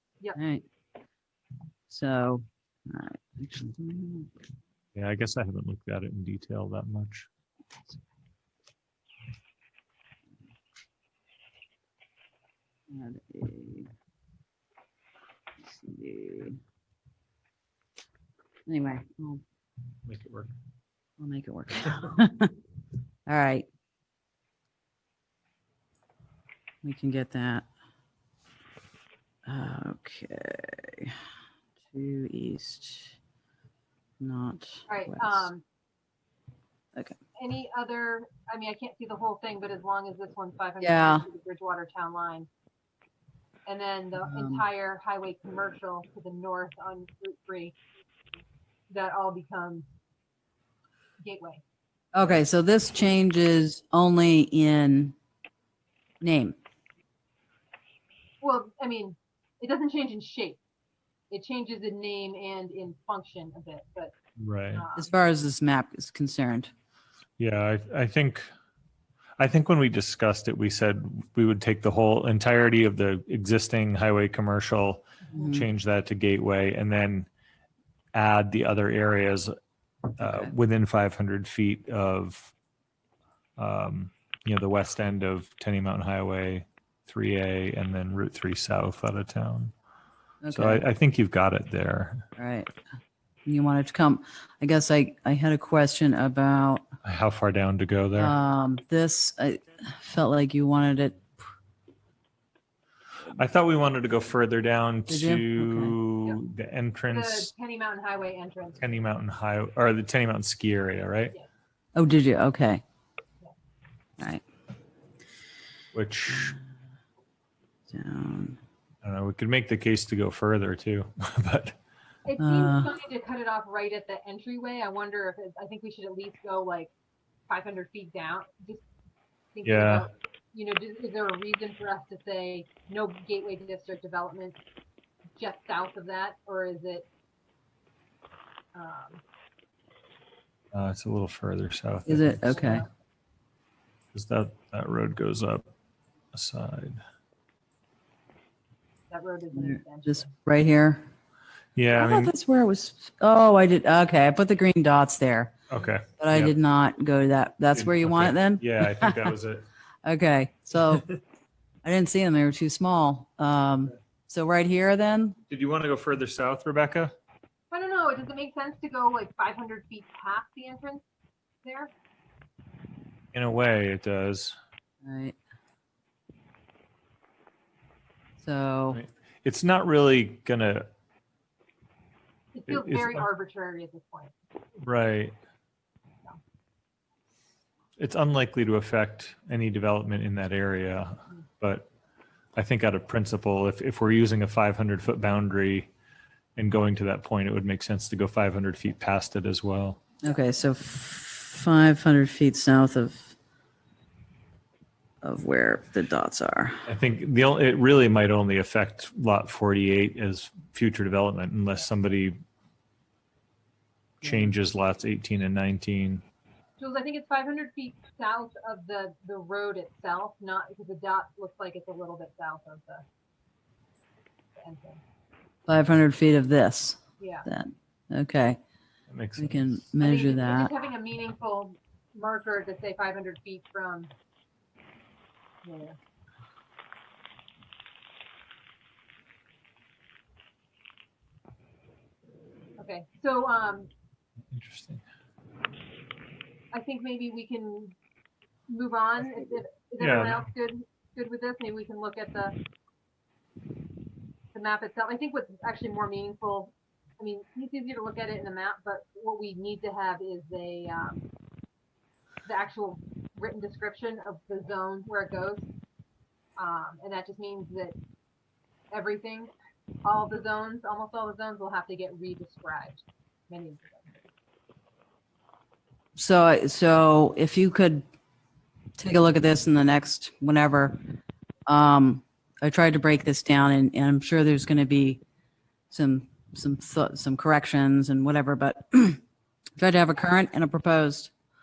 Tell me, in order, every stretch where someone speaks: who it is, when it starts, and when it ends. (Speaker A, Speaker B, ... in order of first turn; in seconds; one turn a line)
Speaker A: 0.3-0.6
Speaker A: 1.9-4.3
Speaker B: 4.9-7.3
Speaker A: 12.9-13.9
Speaker A: 15.6-16.6
Speaker A: 18.7-19.4
Speaker B: 20.1-20.5
Speaker A: 21.2-22.5
Speaker A: 23.3-23.7
Speaker A: 26.8-27.7
Speaker A: 29.4-31.1
Speaker A: 31.9-33.2
Speaker A: 34.2-35.5
Speaker C: 34.9-35.6
Speaker C: 37.4-42.5
Speaker A: 40.8-41.2
Speaker C: 43.6-47.7
Speaker A: 44.2-44.6
Speaker C: 48.9-49.9
Speaker C: 51.2-51.6
Speaker A: 52.1-55.1
Speaker A: 56.2-56.6
Speaker C: 58.4-60.6
Speaker C: 61.3-64.1
Speaker B: 64.4-64.8
Speaker C: 64.7-65.1
Speaker A: 65.0-66.7
Speaker B: 67.4-68.5
Speaker B: 69.4-77.3
Speaker A: 75.3-75.7
Speaker B: 78.1-79.5
Speaker B: 80.2-82.5
Speaker A: 80.2-80.5
Speaker B: 83.6-89.7
Speaker A: 90.4-90.8
Speaker B: 90.5-92.3
Speaker A: 92.4-92.7
Speaker A: 93.5-96.9
Speaker B: 97.0-98.3
Speaker A: 98.2-101.2
Speaker B: 103.3-107.5
Speaker A: 105.1-106.0
Speaker C: 107.1-108.8
Speaker B: 108.8-111.3
Speaker A: 112.0-112.8
Speaker B: 115.9-116.5
Speaker A: 117.9-118.6
Speaker B: 119.0-121.8
Speaker C: 122.2-126.9
Speaker A: 122.4-122.9
Speaker C: 127.5-128.8
Speaker C: 129.5-134.6
Speaker B: 129.6-130.1
Speaker C: 135.4-137.1
Speaker C: 138.7-139.2
Speaker B: 140.7-142.8
Speaker A: 142.1-142.8
Speaker C: 142.4-142.9
Speaker B: 144.1-145.7
Speaker B: 146.3-147.0
Speaker C: 149.1-150.3
Speaker A: 149.5-151.1
Speaker B: 151.7-152.3
Speaker A: 151.9-155.5
Speaker B: 155.7-156.5
Speaker A: 156.2-159.3
Speaker B: 157.7-159.7
Speaker A: 160.0-161.1
Speaker A: 161.8-165.4
Speaker B: 165.5-167.1
Speaker C: 167.7-171.0
Speaker C: 171.6-171.9
Speaker B: 173.3-174.6
Speaker A: 175.0-175.3
Speaker A: 178.4-179.0
Speaker B: 178.9-180.9
Speaker C: 182.5-184.3
Speaker B: 182.7-183.2
Speaker B: 184.8-185.3
Speaker B: 188.0-191.9
Speaker B: 192.5-195.9
Speaker B: 196.6-200.0
Speaker A: 200.2-203.3
Speaker A: 205.2-206.8
Speaker B: 206.8-212.4
Speaker B: 214.2-216.2
Speaker A: 214.2-214.5
Speaker C: 216.8-223.0
Speaker C: 224.6-225.0
Speaker A: 225.7-228.6
Speaker C: 227.2-227.4
Speaker B: 229.1-229.9
Speaker A: 229.4-230.7
Speaker C: 230.0-234.1
Speaker C: 235.6-236.0
Speaker C: 242.8-243.9
Speaker B: 244.5-245.0
Speaker C: 246.7-247.9
Speaker C: 248.7-252.5
Speaker B: 250.0-250.4
Speaker C: 254.5-261.2
Speaker C: 262.4-265.6
Speaker C: 266.6-267.9
Speaker C: 268.9-269.5
Speaker C: 270.0-274.1
Speaker A: 276.1-278.0
Speaker A: 279.0-281.0
Speaker A: 281.7-285.2
Speaker A: 285.9-289.2
Speaker A: 289.8-291.3